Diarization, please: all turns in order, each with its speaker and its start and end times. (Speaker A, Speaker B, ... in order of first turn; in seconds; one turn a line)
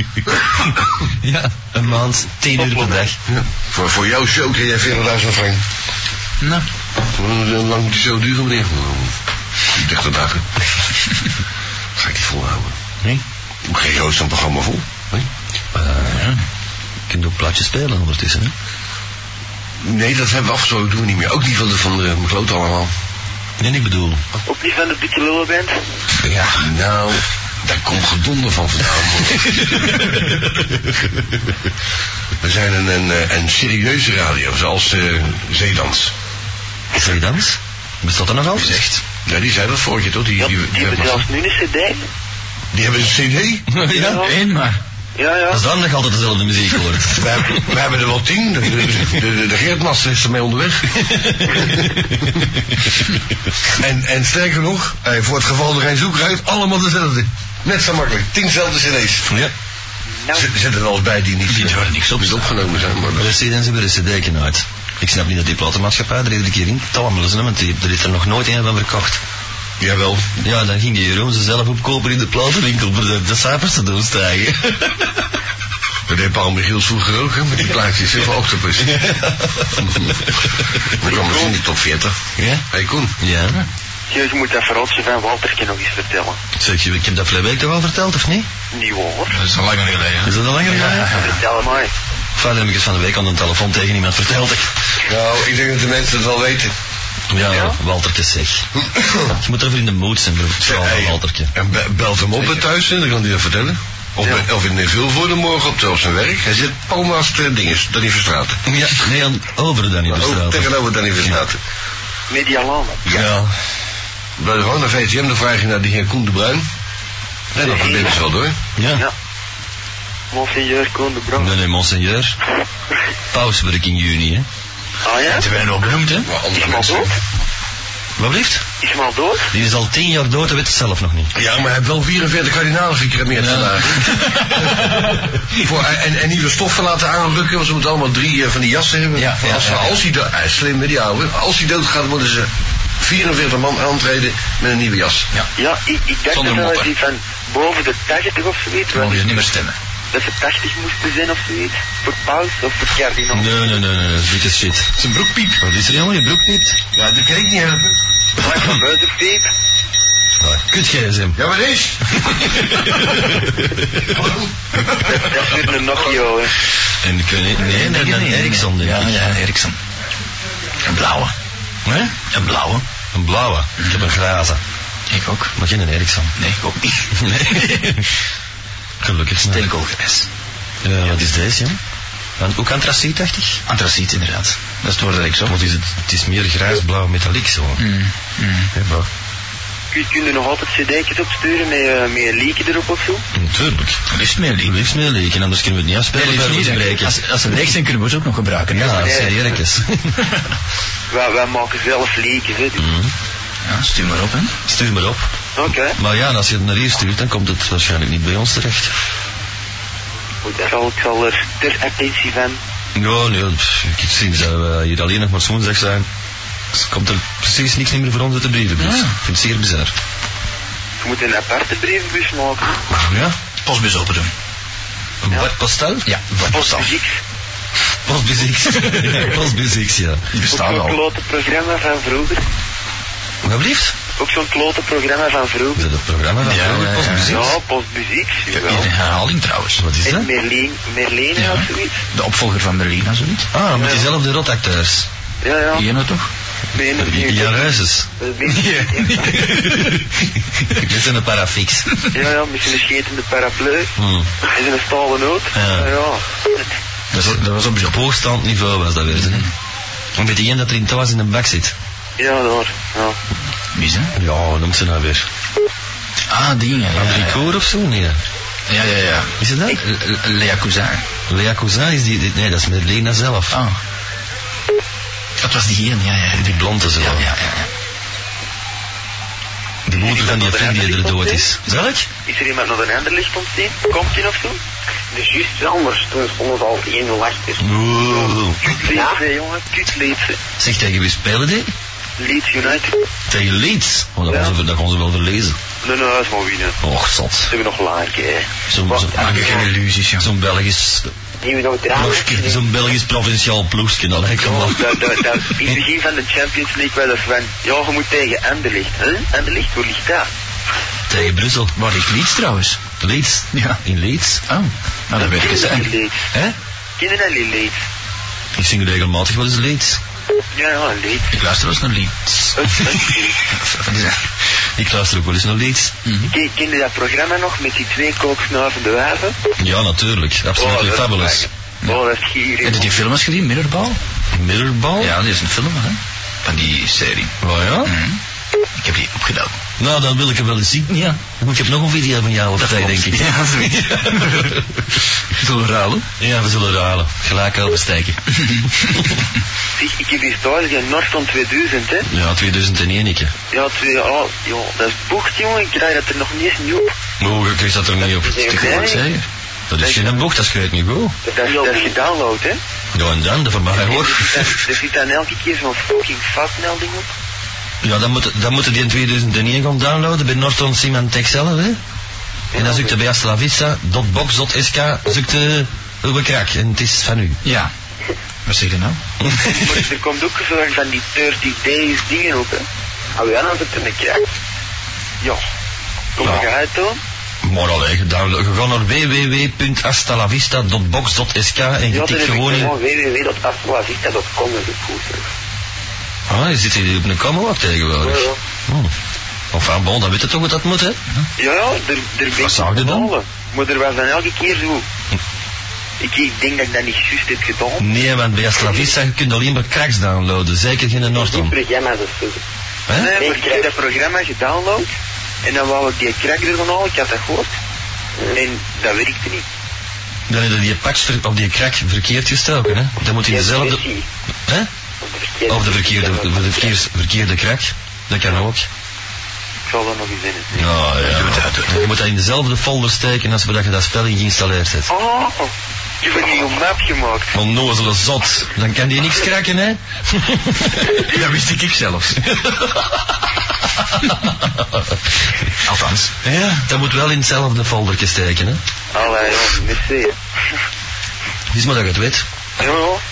Speaker A: 1.2-3.2
Speaker B: 2.5-3.1
Speaker C: 3.3-5.6
Speaker D: 6.4-6.7
Speaker C: 7.1-9.1
Speaker C: 9.7-10.5
Speaker C: 12.0-12.8
Speaker C: 13.7-15.3
Speaker A: 15.7-16.3
Speaker D: 16.1-16.4
Speaker A: 17.1-18.5
Speaker C: 19.8-22.9
Speaker A: 23.6-24.2
Speaker B: 24.5-25.8
Speaker D: 26.3-26.6
Speaker C: 26.5-30.6
Speaker C: 32.4-36.1
Speaker A: 36.9-38.9
Speaker D: 38.6-39.0
Speaker C: 39.3-41.2
Speaker B: 40.4-42.0
Speaker C: 42.7-43.7
Speaker A: 43.7-44.3
Speaker B: 43.9-44.4
Speaker D: 44.2-44.8
Speaker B: 45.2-45.6
Speaker A: 45.5-47.3
Speaker C: 47.1-52.2
Speaker A: 51.1-51.9
Speaker C: 53.8-59.3
Speaker A: 59.3-59.5
Speaker C: 60.4-63.3
Speaker D: 61.5-62.9
Speaker A: 63.2-69.2
Speaker C: 69.8-70.3
Speaker A: 70.4-75.1
Speaker C: 76.1-79.1
Speaker A: 78.8-79.7
Speaker C: 79.7-82.2
Speaker B: 81.1-81.5
Speaker A: 82.4-82.7
Speaker C: 82.7-83.1
Speaker A: 83.2-83.6
Speaker B: 84.1-86.4
Speaker A: 86.6-88.5
Speaker B: 88.7-89.4
Speaker D: 89.3-91.4
Speaker A: 90.2-91.3
Speaker E: 91.2-91.8
Speaker B: 91.3-91.9
Speaker A: 92.4-94.7
Speaker C: 95.1-96.7
Speaker A: 97.3-98.7
Speaker C: 98.9-99.3
Speaker A: 99.3-101.5
Speaker C: 100.6-108.7
Speaker A: 108.7-111.4
Speaker C: 110.1-111.6
Speaker B: 112.3-113.0
Speaker A: 113.1-113.5
Speaker C: 114.4-116.7
Speaker C: 117.5-118.6
Speaker B: 117.6-118.2
Speaker A: 118.8-119.0
Speaker B: 120.3-121.5
Speaker A: 121.3-122.4
Speaker A: 123.3-124.5
Speaker B: 125.0-125.5
Speaker D: 125.3-126.3
Speaker C: 126.2-127.1
Speaker B: 126.5-127.2
Speaker A: 128.2-128.7
Speaker B: 128.8-129.5
Speaker A: 129.5-131.3
Speaker C: 131.3-145.3
Speaker D: 133.4-135.2
Speaker D: 139.2-139.9
Speaker B: 145.6-149.4
Speaker D: 146.3-146.9
Speaker D: 148.9-149.8
Speaker B: 150.1-153.7
Speaker A: 153.3-154.9
Speaker D: 155.0-155.6
Speaker A: 155.6-156.8
Speaker C: 156.9-158.0
Speaker B: 158.4-159.5
Speaker A: 160.4-161.4
Speaker C: 161.4-163.0
Speaker A: 162.8-164.1
Speaker C: 164.0-165.3
Speaker B: 165.1-166.5
Speaker A: 167.0-169.2
Speaker D: 167.6-169.8
Speaker D: 170.8-171.3
Speaker A: 171.8-172.2
Speaker D: 172.3-172.8
Speaker A: 173.1-174.6
Speaker D: 175.1-175.6
Speaker A: 175.6-176.3
Speaker D: 176.4-177.9
Speaker A: 177.2-178.1
Speaker A: 179.0-179.7
Speaker D: 179.5-180.3
Speaker A: 180.8-181.8
Speaker A: 182.4-183.6
Speaker D: 183.7-185.6
Speaker A: 185.5-187.8
Speaker D: 187.8-188.7
Speaker A: 188.7-189.1
Speaker B: 189.9-193.2
Speaker A: 193.3-194.0
Speaker D: 194.1-194.8
Speaker A: 194.6-197.2
Speaker D: 196.1-199.3
Speaker A: 198.7-200.3
Speaker B: 199.0-199.3
Speaker B: 201.1-202.8
Speaker A: 202.8-203.1
Speaker D: 203.7-204.6
Speaker A: 204.7-205.3
Speaker B: 205.6-206.0
Speaker A: 205.9-208.9
Speaker E: 210.4-210.7
Speaker B: 210.7-212.6
Speaker A: 212.9-216.1
Speaker A: 216.7-219.9
Speaker D: 218.8-219.2
Speaker B: 221.0-222.8
Speaker A: 222.9-223.3
Speaker D: 223.7-224.3
Speaker A: 225.2-226.1
Speaker D: 226.1-226.9
Speaker B: 226.5-227.2
Speaker A: 228.1-230.2
Speaker D: 228.8-229.3
Speaker D: 230.3-231.0
Speaker B: 230.5-232.4
Speaker A: 233.4-233.9
Speaker B: 234.2-235.8
Speaker A: 235.8-237.6
Speaker D: 236.4-237.4
Speaker B: 237.3-238.9
Speaker D: 238.6-239.8
Speaker A: 239.8-240.3
Speaker B: 240.0-242.0
Speaker D: 241.4-243.5
Speaker A: 243.5-245.1
Speaker B: 243.8-244.1
Speaker B: 245.4-245.8
Speaker D: 245.7-246.3
Speaker B: 246.7-247.8
Speaker A: 247.0-248.1
Speaker E: 248.2-249.5
Speaker D: 248.5-250.8
Speaker A: 250.8-251.9
Speaker B: 252.1-253.9
Speaker A: 254.0-254.3
Speaker B: 254.5-256.7
Speaker A: 255.5-255.9
Speaker D: 257.1-258.0
Speaker A: 257.1-259.5
Speaker D: 259.2-259.5
Speaker A: 260.2-261.8
Speaker B: 262.2-263.2
Speaker D: 263.8-264.1
Speaker A: 264.1-265.3
Speaker D: 266.3-267.5
Speaker A: 267.0-268.2
Speaker D: 268.7-271.0
Speaker A: 269.4-269.8
Speaker A: 271.3-273.6
Speaker D: 273.5-273.8
Speaker D: 275.4-277.7
Speaker A: 276.3-277.3
Speaker A: 279.9-282.1
Speaker B: 280.0-281.5
Speaker B: 282.3-284.6
Speaker E: 285.1-287.8
Speaker A: 287.6-288.7
Speaker B: 288.1-290.4
Speaker E: 288.9-289.2
Speaker A: 290.6-291.7
Speaker B: 292.2-293.1
Speaker A: 293.3-295.6
Speaker B: 294.3-294.5
Speaker B: 295.8-296.8
Speaker A: 296.8-297.5
Speaker B: 297.5-298.5
Speaker A: 298.7-299.5
Speaker E: 299.0-299.7
Speaker D: 299.1-300.3
Speaker A: 300.2-301.1
Speaker E: 301.4-302.6
Speaker A: 301.9-305.2
Speaker B: 304.4-310.3
Speaker A: 311.1-311.7
Speaker D: 311.8-312.8
Speaker A: 313.0-314.4
Speaker D: 313.5-313.8
Speaker D: 314.5-315.9
Speaker B: 315.2-316.2
Speaker B: 317.0-317.8
Speaker A: 318.6-320.0
Speaker B: 320.5-321.4
Speaker D: 321.3-324.2
Speaker B: 322.6-323.4
Speaker A: 324.8-325.9
Speaker D: 326.1-326.3
Speaker B: 326.2-329.4
Speaker A: 329.6-331.5
Speaker B: 330.6-333.0
Speaker D: 332.6-334.0
Speaker A: 334.3-335.2
Speaker D: 335.0-338.2
Speaker A: 337.4-337.9
Speaker D: 338.8-339.6
Speaker A: 339.8-344.6
Speaker D: 340.9-341.2
Speaker D: 342.6-344.8
Speaker D: 345.4-346.1
Speaker A: 346.2-349.0
Speaker B: 349.8-352.1
Speaker A: 352.1-353.3
Speaker B: 353.5-356.9
Speaker A: 357.2-358.6
Speaker E: 358.2-358.9
Speaker B: 358.5-359.0
Speaker D: 358.6-359.2
Speaker A: 359.7-361.2
Speaker B: 359.8-360.2
Speaker E: 361.3-361.9
Speaker B: 361.3-362.6
Speaker A: 362.9-364.6
Speaker B: 363.7-367.1
Speaker A: 367.8-371.8
Speaker B: 372.5-372.9
Speaker A: 372.6-377.4
Speaker D: 377.4-377.7
Speaker D: 378.5-379.0
Speaker A: 379.2-379.8
Speaker B: 379.4-382.7
Speaker E: 383.2-384.2
Speaker B: 386.2-387.0
Speaker A: 387.4-392.8
Speaker B: 391.9-392.8
Speaker E: 392.5-395.3
Speaker A: 396.3-398.9
Speaker E: 398.0-398.4
Speaker A: 399.5-401.0
Speaker B: 401.4-404.9
Speaker A: 402.4-403.1
Speaker B: 406.0-407.9
Speaker A: 407.8-411.6
Speaker E: 411.1-412.4
Speaker B: 412.9-414.9
Speaker E: 413.1-413.7
Speaker B: 415.4-417.5
Speaker B: 418.3-419.5
Speaker A: 420.3-423.8
Speaker E: 423.3-424.1
Speaker E: 425.0-426.7
Speaker A: 425.5-428.7
Speaker B: 429.7-430.7
Speaker A: 430.6-434.9
Speaker D: 431.1-431.8
Speaker B: 434.9-437.3
Speaker A: 437.3-441.0
Speaker D: 441.0-442.2
Speaker A: 442.2-443.0
Speaker D: 445.6-446.1
Speaker A: 446.2-448.6
Speaker B: 448.9-450.2
Speaker A: 451.5-452.3
Speaker B: 452.6-453.0